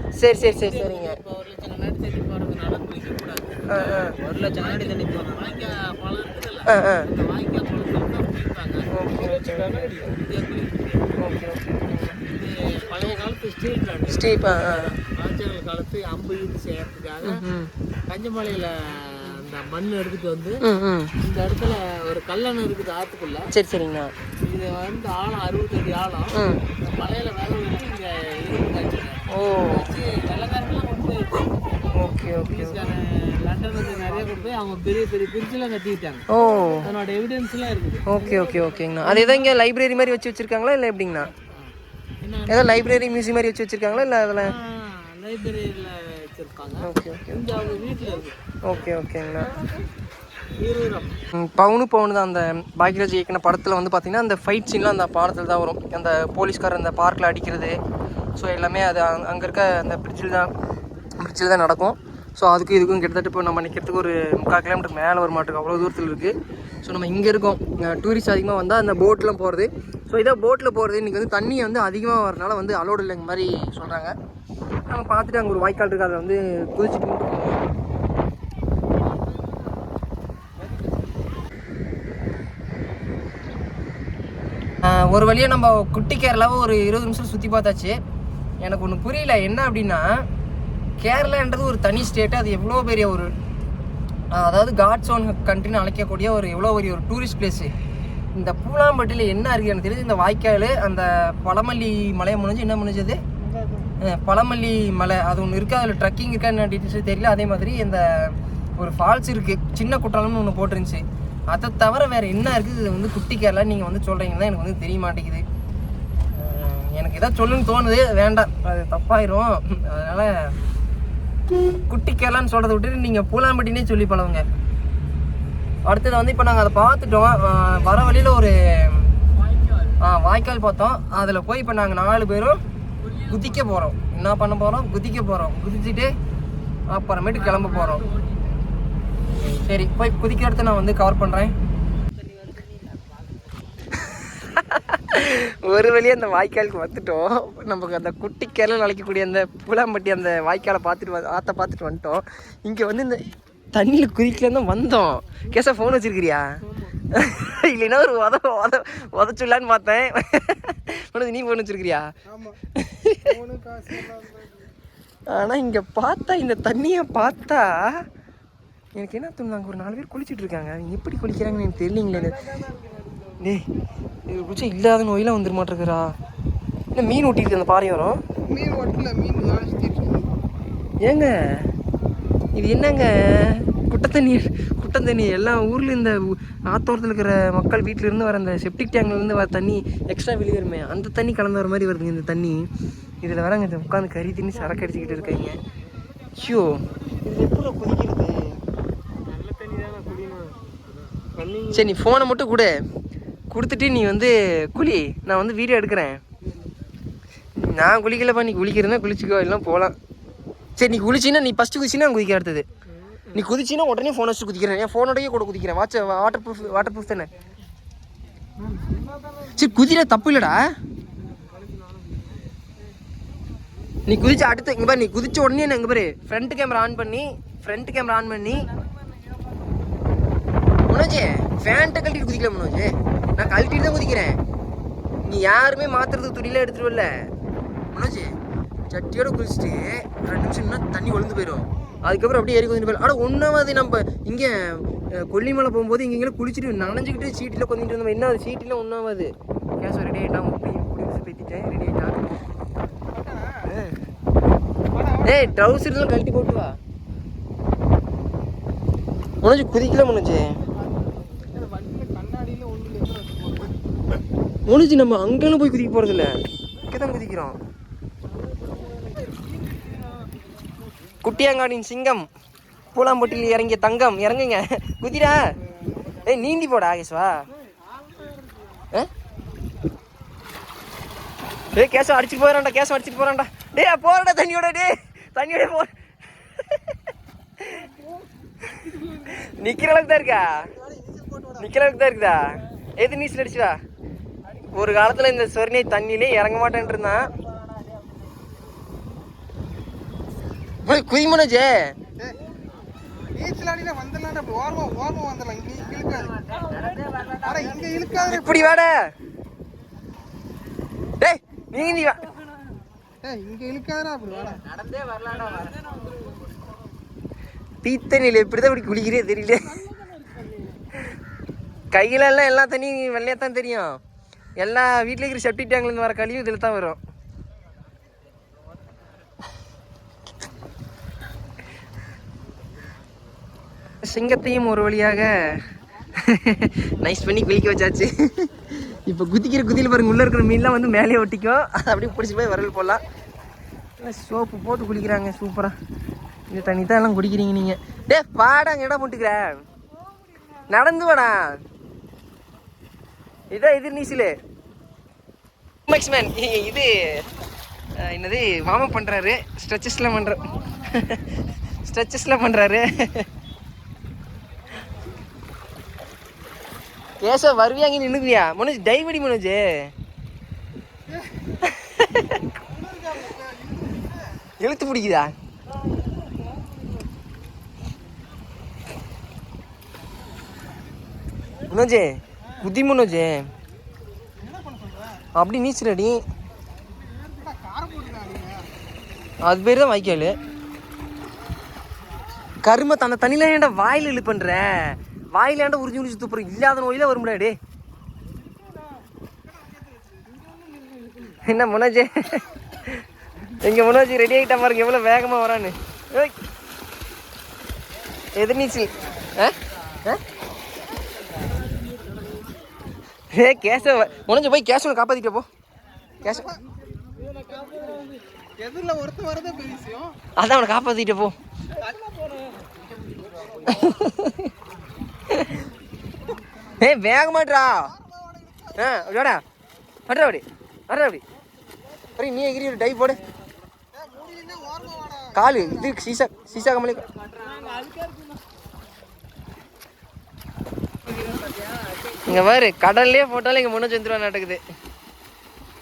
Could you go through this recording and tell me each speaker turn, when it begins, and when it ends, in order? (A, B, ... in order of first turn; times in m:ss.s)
0:00.2-0:01.2 A
0:00.3-0:11.2 B
0:03.7-0:04.2 A
0:06.7-0:07.1 A
0:08.9-0:09.8 A
0:11.2-0:12.2 A
0:12.2-0:17.4 B
0:14.1-0:14.9 A
0:17.2-0:17.7 A
0:18.1-0:20.6 B
0:20.6-0:21.1 A
0:21.2-0:23.5 B
0:23.5-0:24.1 A
0:24.4-0:31.3 B
0:26.3-0:26.6 A
0:29.3-0:29.9 A
0:31.9-0:32.8 A
0:32.4-0:36.2 B
0:36.3-0:36.9 A
0:36.8-0:39.5 B
0:38.1-0:41.3 A
0:41.4-0:42.9 B
0:42.5-0:44.5 A
0:44.4-0:48.4 B
0:46.8-0:47.4 A
0:48.6-0:49.5 A
0:50.6-0:51.1 B
0:51.3-0:57.8 A
0:58.4-1:00.5 A
1:01.2-1:14.1 A
1:14.9-1:17.6 A
1:24.8-1:28.0 A
1:28.6-1:30.0 A
1:31.0-1:33.3 A
1:34.3-1:37.7 A
1:38.3-1:43.2 A
1:44.0-1:55.4 A
1:56.3-2:00.5 A
2:01.9-2:04.4 A
2:05.8-2:09.1 A
2:09.4-2:10.0 B
2:10.0-2:12.6 A
2:13.0-2:13.7 B
2:13.3-2:16.1 A
2:16.9-2:18.0 A
2:17.3-2:18.6 B
2:19.5-2:21.5 A
2:22.2-2:23.4 B
2:24.0-2:33.2 A
2:33.7-2:36.4 A
2:36.6-2:37.0 B
2:37.1-2:42.0 A
2:42.8-2:43.4 A
2:43.4-2:44.4 C
2:43.9-2:44.2 A
2:45.3-2:48.0 A
2:49.0-2:52.4 A
2:52.6-2:53.3 B
2:54.3-2:56.1 A
2:56.9-2:58.2 A
2:58.5-3:00.3 C
3:01.0-3:01.7 A
3:02.5-3:12.7 A
3:13.2-3:15.6 A
3:16.4-3:18.5 A
3:19.3-3:20.6 B
3:21.3-3:21.9 B
3:21.7-3:22.7 A
3:23.5-3:26.2 A
3:27.6-3:29.9 A
3:30.8-3:32.6 A
3:33.1-3:33.4 B
3:33.3-3:37.3 A
3:39.4-3:40.6 A
3:41.4-3:42.0 B
3:44.1-3:48.6 A
3:50.9-3:54.4 A
3:55.2-3:57.1 A
3:57.9-3:58.3 A
3:58.9-4:12.4 A
4:13.1-4:13.6 C
4:13.7-4:14.0 A
4:15.2-4:16.8 A
4:19.4-4:20.5 A
4:21.6-4:22.0 B
4:21.8-4:23.2 C
4:22.6-4:23.6 B
4:24.7-4:26.3 A
4:26.9-4:27.6 A
4:28.8-4:29.3 B
4:31.2-4:32.2 A
4:32.9-4:35.4 A
4:36.2-4:37.4 A
4:41.7-4:46.8 A
4:47.6-4:47.9 A
4:48.9-4:50.7 A
4:51.5-4:53.8 A
4:54.7-4:57.2 A
5:00.8-5:01.9 A
5:03.3-5:03.6 B
5:03.4-5:06.3 C
5:05.8-5:08.5 B
5:07.4-5:08.2 C
5:08.1-5:09.0 A
5:11.2-5:12.2 A
5:13.2-5:14.6 C
5:14.3-5:16.4 B
5:17.8-5:19.8 A
5:19.9-5:20.7 B
5:21.9-5:24.0 A
5:24.6-5:27.0 A
5:34.0-5:35.5 A
5:36.2-5:43.0 A
5:44.0-5:45.7 A
5:46.5-5:49.6 A
5:50.7-5:51.4 A
5:53.5-5:54.3 A
5:55.9-5:57.2 A
5:58.0-6:01.2 A
6:01.8-6:03.3 A
6:07.2-6:09.9 A
6:11.6-6:12.2 A
6:12.7-6:14.1 C
6:14.6-6:15.3 A
6:21.7-6:23.4 A
6:24.4-6:25.2 C
6:25.3-6:26.2 A
6:27.2-6:28.7 C
6:29.4-6:30.4 A
6:32.6-6:37.6 A
6:41.0-6:41.3 B
6:41.4-6:46.3 A
6:48.4-6:50.2 A
6:51.4-6:52.4 B
6:53.3-6:55.5 A
6:56.2-6:56.6 A
6:57.2-6:58.2 B
6:58.6-7:00.2 C
7:00.4-7:01.3 A
7:01.8-7:02.6 B
7:03.6-7:04.4 A
7:05.3-7:05.6 A
7:06.8-7:07.9 A
7:08.1-7:08.6 C
7:08.7-7:09.4 A
7:10.1-7:11.2 A
7:12.1-7:13.2 A
7:14.0-7:15.3 C
7:15.3-7:17.1 A
7:17.3-7:18.3 B
7:21.1-7:21.9 B
7:22.2-7:24.6 A